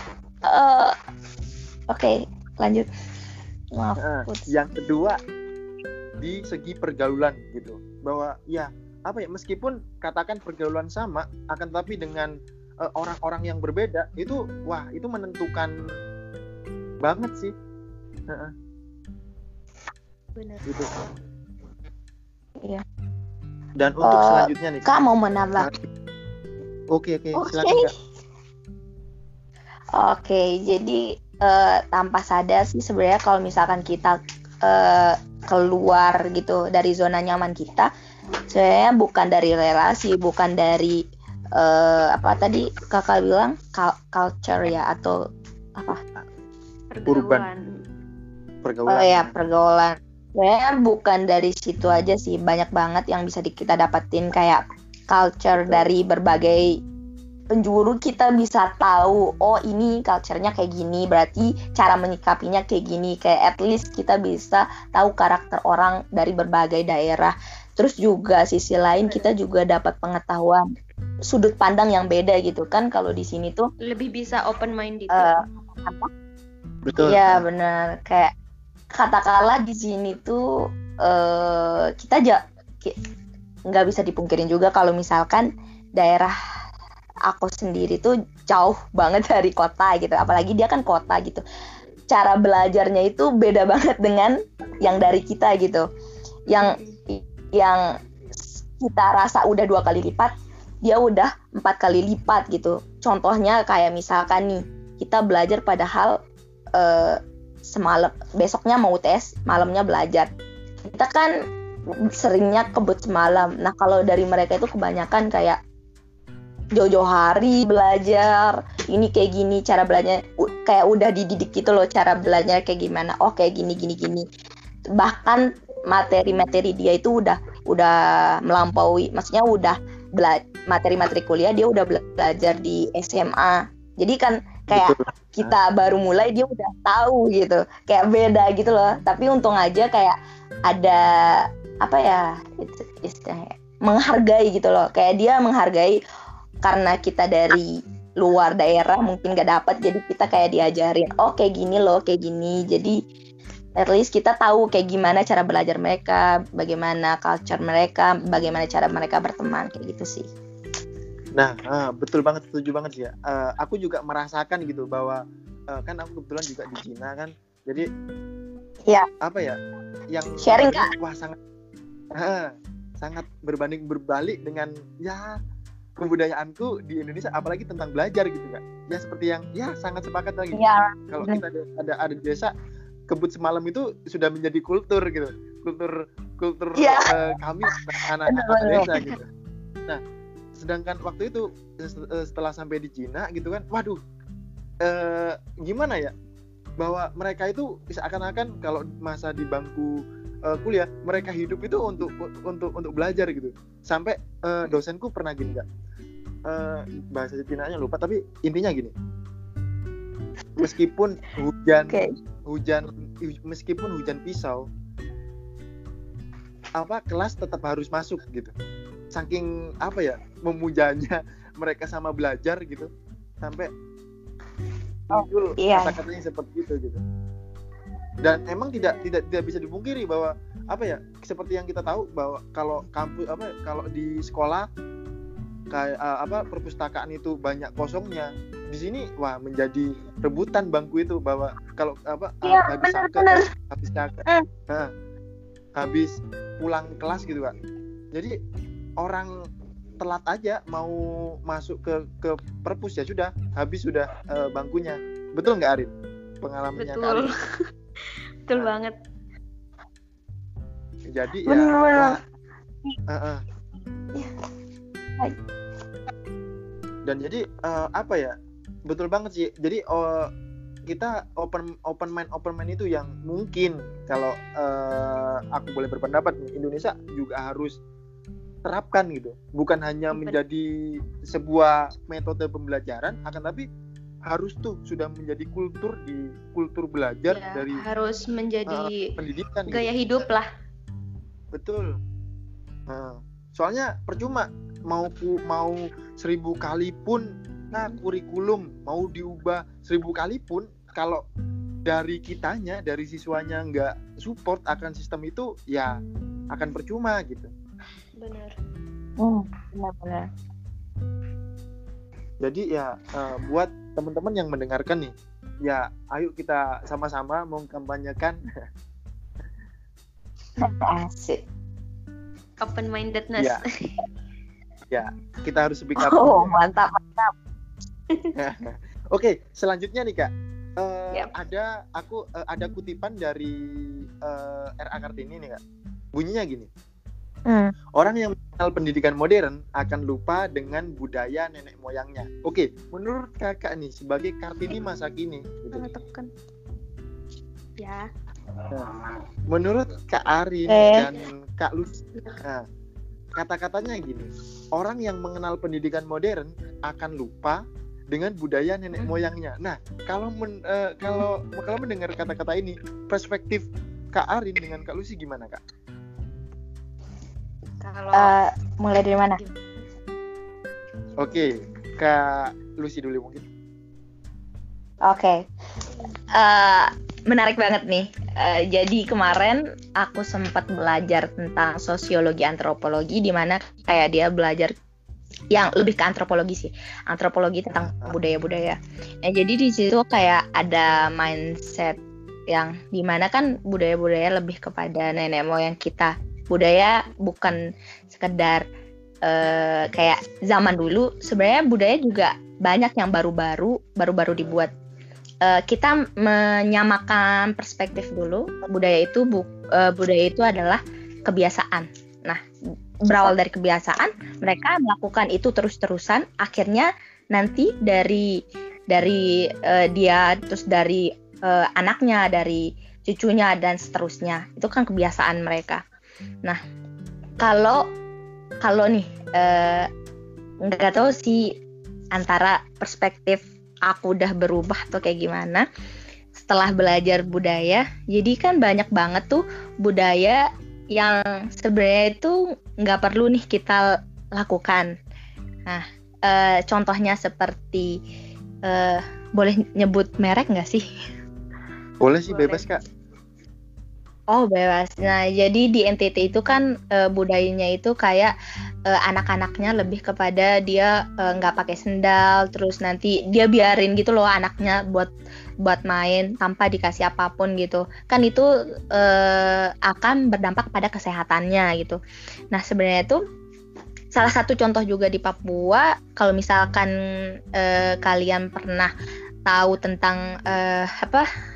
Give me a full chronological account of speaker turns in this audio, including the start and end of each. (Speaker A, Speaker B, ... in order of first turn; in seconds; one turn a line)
Speaker A: 0.5-0.9
Speaker A: 1.9-2.9
Speaker A: 3.7-4.5
Speaker B: 4.0-5.2
Speaker B: 6.2-15.7
Speaker B: 17.0-17.5
Speaker C: 20.4-20.6
Speaker B: 20.6-20.9
Speaker B: 23.8-24.9
Speaker A: 24.0-25.7
Speaker B: 26.9-27.9
Speaker A: 27.3-27.9
Speaker A: 29.9-37.9
Speaker A: 38.5-41.0
Speaker A: 41.5-45.1
Speaker C: 46.9-47.8
Speaker B: 47.1-47.5
Speaker B: 48.6-49.3
Speaker A: 48.9-56.8
Speaker B: 55.5-55.9
Speaker A: 57.5-70.6
Speaker C: 69.0-69.3
Speaker A: 71.2-73.7
Speaker C: 73.8-75.4
Speaker A: 75.1-76.1
Speaker B: 76.8-77.4
Speaker A: 77.0-78.3
Speaker A: 78.9-80.4
Speaker A: 81.0-83.0
Speaker A: 83.7-86.3
Speaker A: 87.3-91.4
Speaker A: 92.1-95.8
Speaker A: 96.5-97.8
Speaker C: 96.6-97.0
Speaker A: 98.4-100.3
Speaker A: 100.8-106.2
Speaker A: 106.7-110.3
Speaker A: 110.9-111.3
Speaker A: 112.1-115.6
Speaker A: 116.7-124.2
Speaker A: 125.0-140.2
Speaker B: 134.7-135.5
Speaker A: 140.7-146.0
Speaker A: 146.6-152.9
Speaker A: 153.8-160.3
Speaker B: 161.3-165.2
Speaker B: 165.7-167.9
Speaker B: 169.2-169.6
Speaker B: 170.1-171.4
Speaker A: 170.4-170.9
Speaker B: 172.2-175.4
Speaker B: 176.0-180.6
Speaker A: 180.5-181.4
Speaker B: 181.1-182.5
Speaker B: 183.1-189.2
Speaker A: 186.8-187.2
Speaker A: 188.3-189.1
Speaker B: 190.6-194.0
Speaker B: 194.8-196.1
Speaker B: 196.8-205.6
Speaker B: 206.5-208.9
Speaker B: 210.6-214.7
Speaker B: 216.8-218.5
Speaker B: 219.1-222.9
Speaker B: 223.4-223.7
Speaker B: 225.1-227.0
Speaker A: 225.1-226.0
Speaker B: 228.2-234.7
Speaker B: 235.7-244.9
Speaker A: 242.4-243.4
Speaker B: 245.8-247.5
Speaker B: 249.0-249.3
Speaker B: 250.0-257.3
Speaker C: 256.8-257.4
Speaker C: 258.0-258.9
Speaker B: 261.1-262.2
Speaker A: 261.4-262.2
Speaker B: 263.1-263.4
Speaker B: 267.1-268.3
Speaker B: 268.9-270.3
Speaker B: 270.9-277.8
Speaker B: 278.7-283.6
Speaker C: 280.1-280.4
Speaker B: 284.3-287.8
Speaker C: 287.3-289.1
Speaker B: 288.7-289.9
Speaker C: 289.7-290.5
Speaker B: 291.5-291.9
Speaker B: 292.9-301.2
Speaker B: 301.9-305.9
Speaker B: 306.5-307.5
Speaker C: 308.2-308.6
Speaker A: 309.2-310.3
Speaker B: 312.4-315.1
Speaker B: 315.6-318.4
Speaker A: 320.6-321.4
Speaker C: 322.6-323.9
Speaker B: 324.9-326.5
Speaker A: 326.0-327.3
Speaker B: 328.4-335.6
Speaker B: 336.1-336.7
Speaker A: 337.5-337.7
Speaker B: 337.9-345.9
Speaker C: 345.7-346.3
Speaker C: 347.8-348.0
Speaker B: 349.5-352.6
Speaker A: 350.7-351.1
Speaker B: 353.3-365.6
Speaker C: 358.9-359.2
Speaker C: 367.8-368.4
Speaker A: 368.1-369.4
Speaker B: 371.2-373.4
Speaker C: 371.2-371.6
Speaker A: 375.0-375.5
Speaker A: 376.3-384.7
Speaker A: 385.5-397.6
Speaker B: 387.8-388.1
Speaker A: 398.1-398.6
Speaker A: 399.2-404.7
Speaker A: 405.4-412.4
Speaker A: 413.1-418.4
Speaker A: 418.9-425.8
Speaker A: 427.4-427.8
Speaker A: 428.6-429.9
Speaker A: 430.6-431.5
Speaker A: 432.1-435.6
Speaker A: 436.4-444.9
Speaker A: 445.7-448.0
Speaker A: 448.6-450.8
Speaker B: 452.0-452.8
Speaker C: 452.2-452.6
Speaker A: 454.3-458.3
Speaker A: 458.9-465.1
Speaker A: 465.6-472.0
Speaker A: 472.5-473.2
Speaker A: 474.1-476.9
Speaker A: 477.5-478.9
Speaker A: 479.4-481.2